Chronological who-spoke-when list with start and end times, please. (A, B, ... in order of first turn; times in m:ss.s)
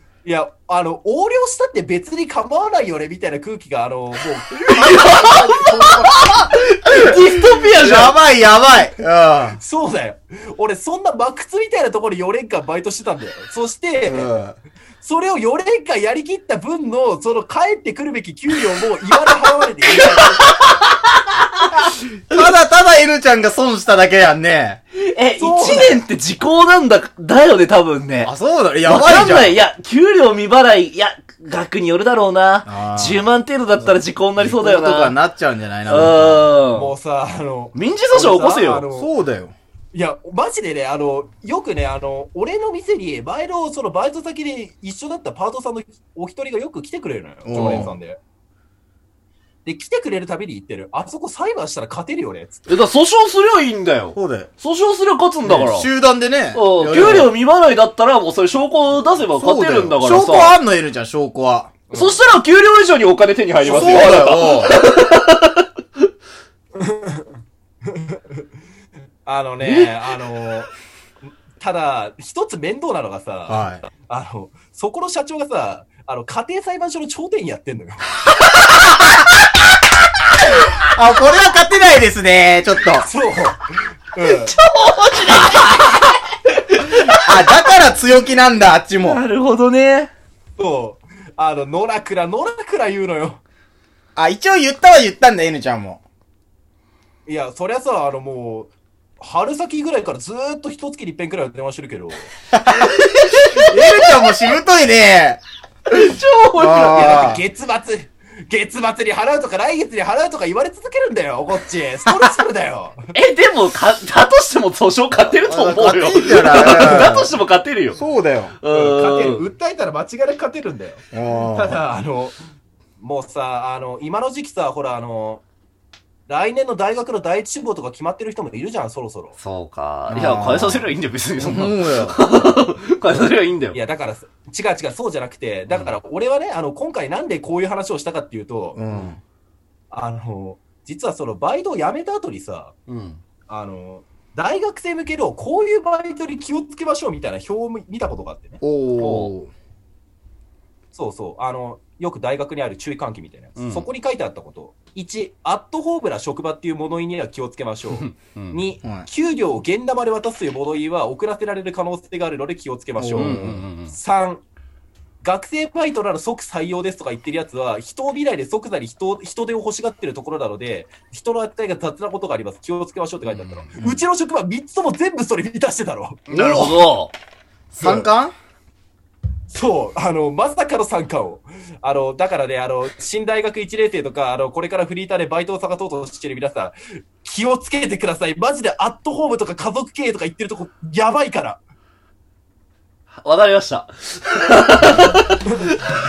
0:00.2-0:06.6 A
0:04.6-0:08.2 B
0:07.3-0:09.6 C
0:09.6-0:14.3 A
0:14.1-0:14.6 C
0:15.0-0:20.4 A
0:19.9-0:20.7 B
0:22.2-0:24.8 C
0:25.0-0:28.3 B
0:25.4-0:26.0 A
0:28.2-0:29.6 C
0:28.8-0:35.2 B
0:32.6-0:33.3 C
0:33.8-0:36.5 C
0:35.9-0:36.9 B
0:36.7-0:39.1 A
0:37.7-0:38.9 B
0:38.9-0:39.5 C
0:39.9-0:48.2 A
0:47.4-0:48.0 C
0:47.5-0:47.9 B
0:49.6-0:52.7 A
0:52.7-0:55.9 B
0:54.1-0:54.5 C
0:55.4-0:57.3 C
0:56.5-1:00.6 B
0:59.3-1:01.8 C
1:01.9-1:02.2 A
1:01.9-1:05.7 B
1:03.6-1:04.8 C
1:03.7-1:04.0 A
1:06.8-1:08.4 A
1:09.2-1:10.7 A
1:09.6-1:09.9 B
1:11.6-1:18.1 A
1:13.5-1:13.8 C
1:20.9-1:23.1 C
1:23.0-1:24.6 A
1:24.2-1:27.6 B
1:27.2-1:29.2 C
1:29.0-1:30.1 B
1:30.6-1:33.4 A
1:34.2-1:36.0 C
1:37.3-1:42.3 A
1:42.5-1:45.4 C
1:43.2-1:44.6 B
1:45.9-1:47.2 B
1:46.6-1:47.4 C
1:46.8-1:53.1 A
1:53.1-1:58.0 B
1:55.4-1:57.3 C
1:57.9-1:58.5 C
1:58.6-1:59.5 B
1:58.7-2:02.4 A
2:01.1-2:01.8 C
2:03.0-2:05.4 A
2:06.3-2:09.4 A
2:09.4-2:13.8 B
2:10.1-2:12.3 C
2:13.7-2:18.8 A
2:15.7-2:16.0 B
2:18.8-2:19.2 C
2:19.9-2:22.7 A
2:22.9-2:23.2 B
2:23.5-2:28.6 A
2:28.6-2:29.5 C
2:29.0-2:29.3 B
2:30.9-2:44.4 A
2:33.6-2:33.9 B
2:37.9-2:38.6 B
2:38.8-2:39.1 C
2:43.0-2:43.7 C
2:43.2-2:44.0 B
2:45.2-2:56.3 A
2:53.2-2:54.0 B
2:56.3-2:57.1 B
2:56.3-2:56.8 C
2:57.7-2:58.1 A
2:57.8-2:58.3 C
2:59.5-3:11.6 A
3:13.2-3:15.8 B